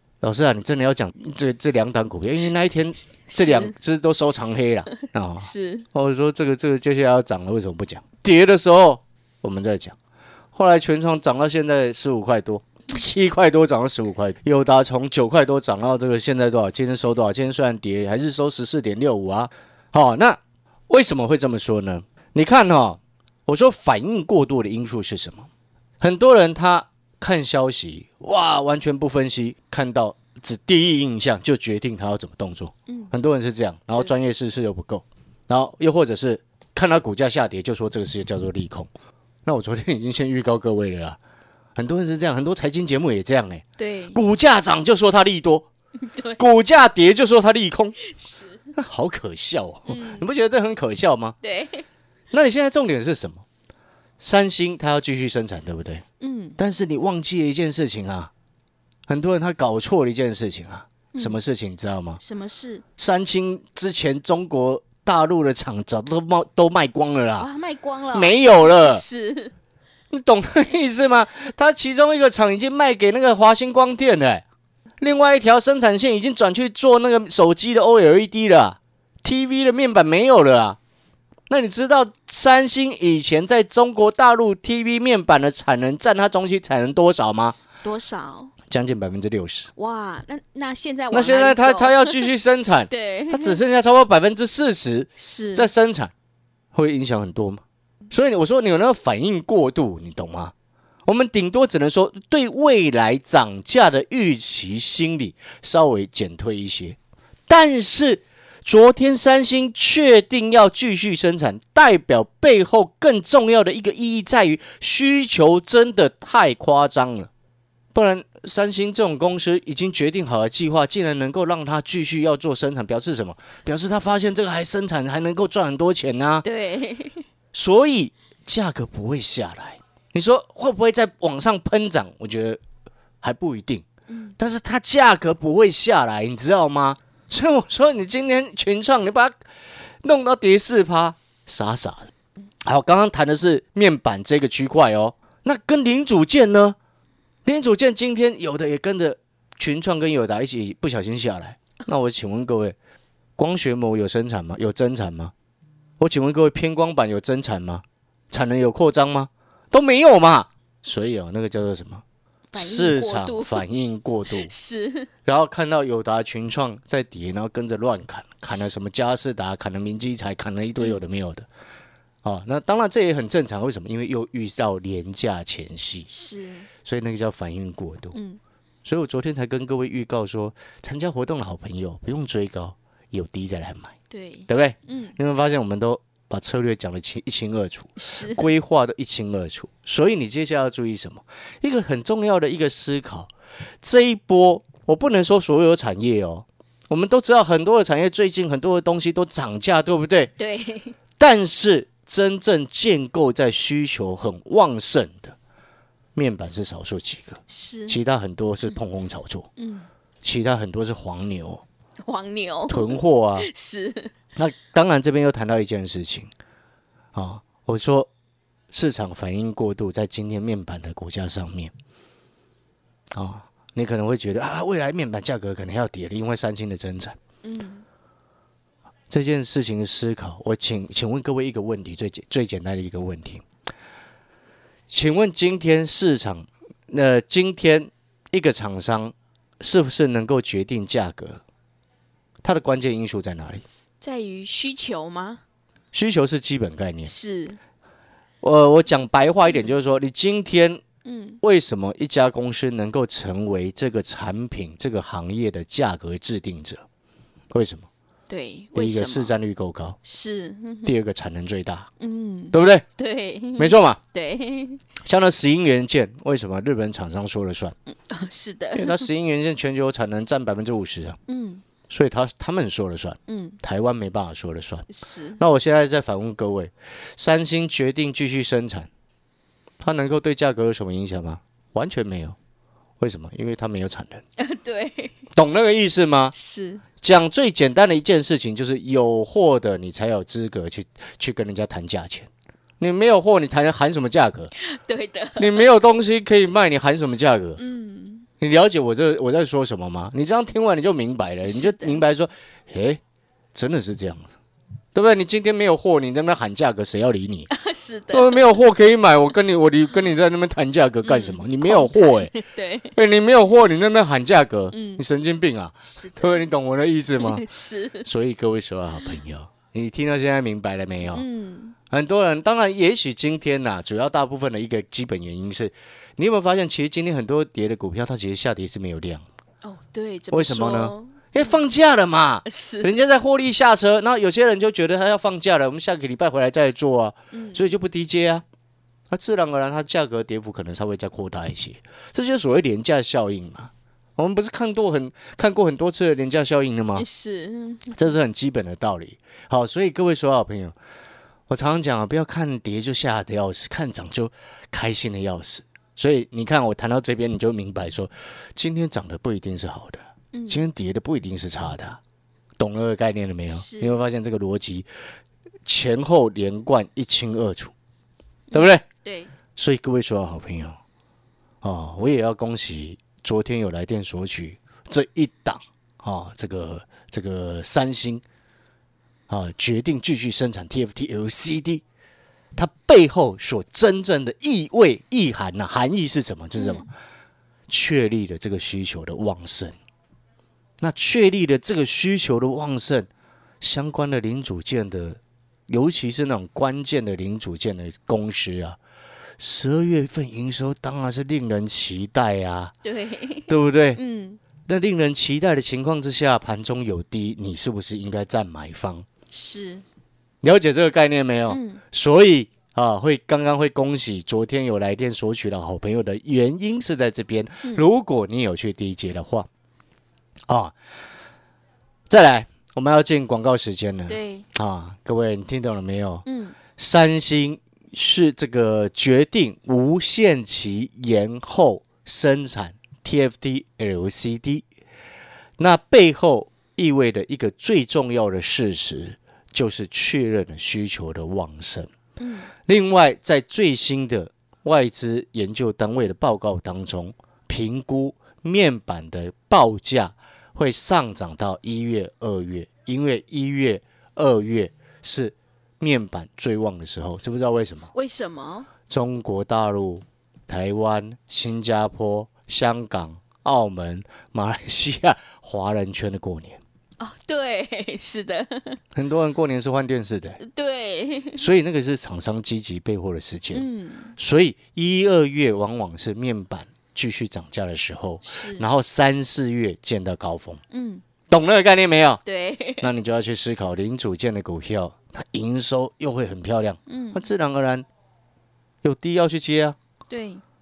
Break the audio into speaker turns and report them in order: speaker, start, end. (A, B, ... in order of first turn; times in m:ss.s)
0:00.2-0:10.0 A
0:03.3-0:03.7 B
0:05.4-0:05.9 B
0:10.5-0:25.5 A
0:26.0-0:38.9 A
0:32.9-0:33.1 B
0:39.4-0:41.2 A
0:41.8-0:45.7 A
0:43.8-0:44.2 B
0:46.0-0:46.4 B
0:46.4-0:48.0 A
0:48.1-0:48.6 B
0:48.7-0:51.4 A
0:49.9-0:50.2 B
0:51.4-0:51.9 B
0:52.3-0:53.4 A
0:54.2-0:56.0 A
0:56.2-0:56.6 B
0:56.6-0:58.3 A
0:59.1-1:02.2 A
1:02.2-1:02.8 B
1:03.0-1:07.5 A
1:07.4-1:09.5 B
1:08.1-1:09.0 A
1:10.1-1:14.4 A
1:15.0-1:20.8 A
1:21.5-1:27.6 A
1:27.8-1:28.5 B
1:28.7-1:29.7 A
1:29.8-1:32.3 B
1:31.1-1:36.1 A
1:32.9-1:33.6 B
1:35.2-1:35.7 B
1:36.7-1:40.5 A
1:41.1-1:47.0 A
1:47.5-1:57.3 A
1:57.9-2:06.4 A
2:06.4-2:07.3 B
2:07.5-2:12.6 A
2:13.2-2:13.8 A
2:14.1-2:14.4 B
2:14.4-2:19.4 A
2:20.0-2:22.1 A
2:22.6-2:26.8 A
2:27.4-2:32.8 A
2:33.4-2:35.3 A
2:36.0-2:42.0 A
2:42.5-2:43.7 B
2:42.6-2:44.5 A
2:44.3-2:45.1 B
2:45.3-2:51.5 A
2:52.2-2:56.1 A
2:56.1-2:56.7 B
2:56.8-2:58.2 A
2:58.1-2:58.4 B
2:58.8-3:04.0 A
3:04.1-3:05.2 B
3:04.5-3:13.3 A
3:08.0-3:08.5 B
3:13.8-3:20.3 A
3:20.4-3:21.0 B
3:21.2-3:25.4 A
3:26.2-3:29.5 A
3:27.5-3:28.0 B
3:29.6-3:29.9 B
3:30.2-3:31.6 A
3:32.0-3:34.1 B
3:32.7-3:33.5 A
3:34.4-3:36.3 A
3:37.1-3:38.1 A
3:38.7-3:41.7 A
3:43.1-3:47.2 A
3:47.4-3:47.8 B
3:49.1-3:53.4 A
3:54.9-4:01.4 A
4:02.4-4:03.6 A
4:04.0-4:05.4 B
4:05.9-4:07.1 A
4:07.0-4:07.6 B
4:08.4-4:10.8 A
4:11.0-4:11.4 B
4:11.4-4:16.8 A
4:17.5-4:17.9 A
4:18.3-4:19.4 B
4:18.8-4:20.0 A
4:20.0-4:20.9 B
4:20.8-4:21.9 A
4:22.0-4:24.8 B
4:22.5-4:22.8 A
4:23.6-4:24.0 A
4:25.0-4:27.8 A
4:27.9-4:29.1 B
4:28.7-4:31.2 A
4:31.3-4:31.6 B
4:31.9-4:38.9 A
4:33.3-4:33.6 B
4:34.9-4:35.4 B
4:39.8-4:42.4 A
4:43.0-4:44.2 A
4:44.4-4:45.2 B
4:45.3-4:46.3 A
4:46.3-4:46.8 B
4:47.0-4:52.3 A
4:52.8-4:54.5 A
4:54.6-4:55.7 B
4:55.4-4:57.6 A
4:57.6-4:58.3 B
4:58.4-5:03.0 A
5:01.4-5:02.0 B
5:03.6-5:04.3 A
5:05.0-5:07.5 A
5:07.5-5:08.6 B
5:08.1-5:12.3 A
5:11.0-5:13.0 B
5:12.9-5:17.4 A
5:14.7-5:15.0 B
5:15.8-5:16.5 B
5:17.2-5:18.1 B
5:18.0-5:21.2 A
5:21.1-5:21.8 B
5:21.9-5:29.2 A
5:29.6-5:31.6 B
5:30.3-5:38.4 A
5:32.4-5:32.9 B
5:37.3-5:37.7 B
5:39.1-5:47.1 A
5:47.0-5:48.2 B
5:47.9-5:50.8 A
5:51.5-6:02.0 A
6:00.3-6:00.7 B
6:02.6-6:04.9 A
6:03.5-6:04.0 B
6:05.7-6:07.7 A
6:08.5-6:09.3 B
6:08.5-6:08.8 A
6:09.6-6:10.8 A
6:11.6-6:18.2 A
6:19.3-6:21.8 A
6:22.6-6:26.9 A
6:26.6-6:26.9 B
6:27.7-6:29.8 A
6:30.8-6:33.1 A
6:33.6-6:38.8 A
6:39.4-6:42.8 A
6:42.8-6:44.4 B
6:43.5-6:44.0 A
6:44.6-6:49.0 A
6:49.3-6:49.8 B
6:50.4-6:59.5 A
6:51.5-6:51.8 B
7:00.5-7:00.7 A
7:02.1-7:14.6 A
7:04.1-7:04.5 B
7:06.2-7:06.6 B
7:15.6-7:21.9 A
7:22.2-7:22.5 B
7:22.7-7:37.9 A
7:37.9-7:38.7 B
7:38.9-7:46.6 A
7:47.0-7:48.8 B
7:49.0-7:50.4 A
7:50.4-7:51.4 B
7:51.4-8:00.6 A
7:53.5-7:54.1 B
7:58.2-7:58.7 B
8:00.7-8:01.0 B
8:01.3-8:02.2 A
8:02.2-8:02.9 B
8:02.8-8:07.9 A
8:06.9-8:07.2 B
8:08.8-8:09.8 A
8:10.1-8:10.4 B